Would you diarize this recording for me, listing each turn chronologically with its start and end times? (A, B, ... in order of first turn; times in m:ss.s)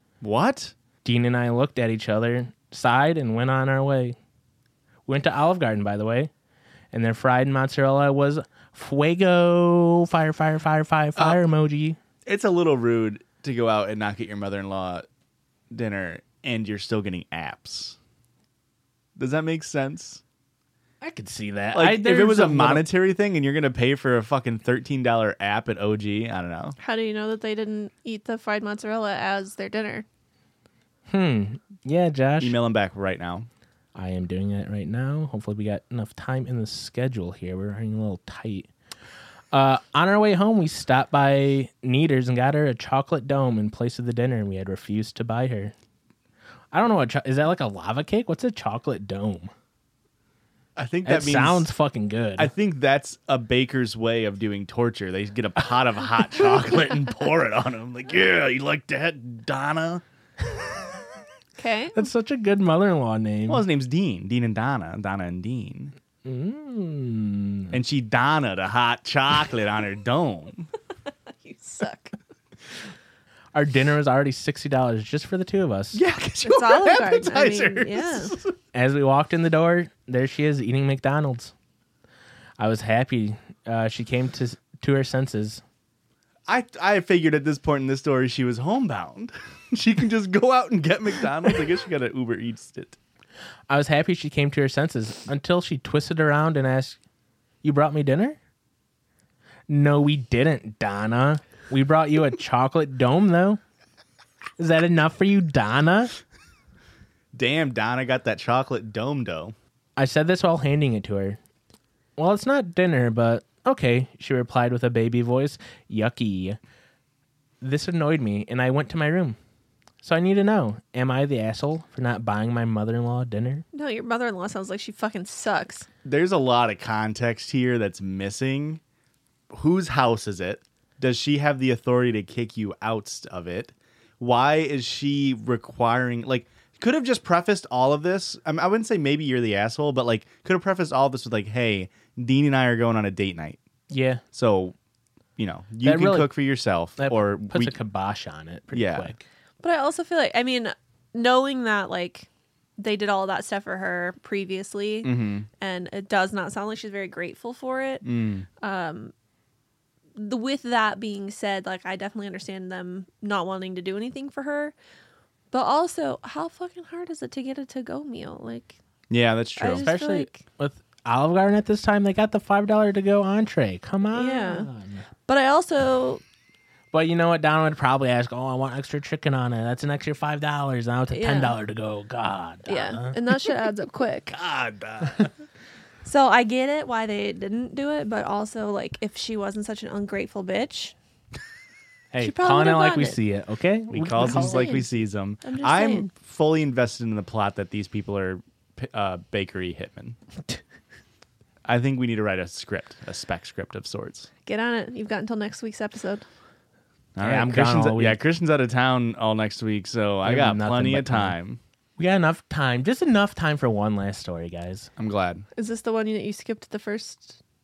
0:00.2-0:00.7 A
0:01.0-0:04.2 B
0:05.1-0:06.3 B
0:06.9-0:12.0 B
0:12.2-0:15.1 A
0:15.7-0:18.0 A
0:19.2-0:20.2 A
0:21.0-0:22.8 B
0:21.7-0:26.8 A
0:26.8-0:30.0 C
0:31.1-0:32.6 B
0:32.4-0:33.5 A
0:33.9-0:38.7 B
0:39.5-0:45.7 B
0:46.7-0:49.5 B
0:50.8-0:51.7 A
0:51.0-0:52.5 B
0:52.4-1:00.0 A
1:01.6-1:02.0 C
1:01.9-1:03.6 B
1:03.5-1:05.9 A
1:06.2-1:07.8 B
1:07.7-1:10.7 A
1:11.3-1:12.2 C
1:13.5-1:16.0 B
1:15.9-1:18.5 A
1:16.4-1:18.3 C
1:18.7-1:21.5 B
1:22.6-1:25.6 B
1:26.5-1:33.0 A
1:33.7-1:37.0 B
1:37.6-1:38.4 B
1:39.7-1:43.6 B
1:44.6-1:46.1 B
1:47.3-1:49.5 A
1:50.0-1:51.4 B
1:52.2-1:56.6 B
1:57.6-1:59.4 B
2:00.0-2:03.6 B
2:03.7-2:05.8 C
2:06.0-2:08.8 A
2:09.5-2:23.6 A
2:23.9-2:24.2 B
2:24.3-2:24.7 A
2:25.4-2:27.8 A
2:25.8-2:26.3 B
2:27.0-2:29.2 B
2:28.7-2:29.1 A
2:29.6-2:38.0 C
2:35.0-2:35.5 A
2:38.0-2:38.5 A
2:38.6-2:39.1 C
2:40.2-2:44.7 C
2:45.5-2:48.8 C
2:49.1-2:49.9 A
2:49.6-2:50.4 C
2:49.8-2:55.0 B
2:54.1-2:54.7 C
2:55.3-2:56.2 C
2:56.9-3:03.2 B
3:01.1-3:01.6 C
3:02.7-3:04.4 C
3:04.3-3:05.3 A
3:06.0-3:10.9 C
3:12.1-3:14.7 B
3:12.2-3:13.2 C
3:13.9-3:20.2 A
3:14.1-3:14.9 C
3:15.4-3:16.1 C
3:21.6-3:24.3 A
3:24.4-3:26.2 C
3:27.2-3:31.6 A
3:27.2-3:28.2 B
3:30.2-3:31.3 B
3:32.0-3:34.9 B
3:35.0-3:35.4 A
3:35.5-3:37.4 C